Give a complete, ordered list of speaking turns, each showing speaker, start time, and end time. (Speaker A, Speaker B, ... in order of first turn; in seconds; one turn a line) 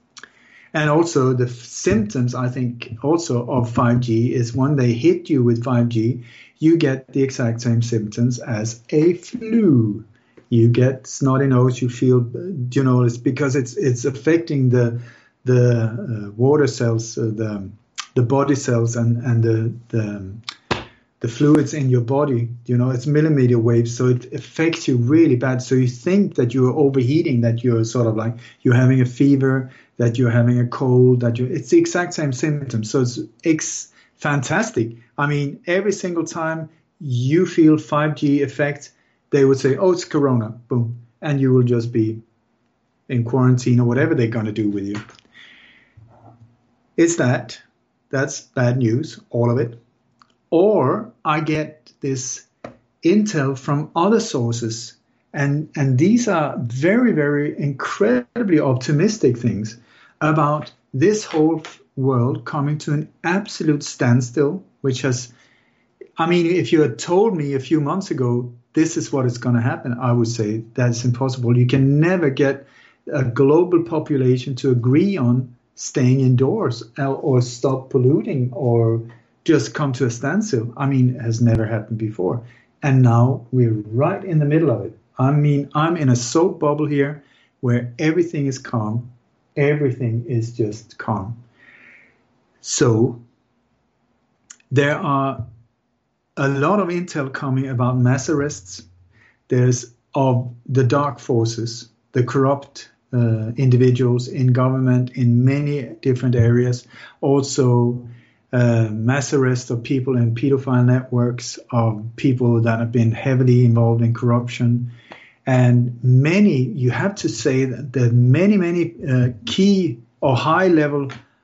Speaker A: 0.7-20.4
Speaker A: 21.2-42.2
Speaker A: 43.1-45.0
Speaker A: 47.0-49.8
Speaker A: 50.5-52.5
Speaker A: 53.0-65.3
Speaker A: 66.2-91.4
Speaker A: 92.6-93.2
Speaker A: 94.7-95.4
Speaker A: 96.4-98.8
Speaker A: 99.5-114.9
Speaker A: 115.5-121.1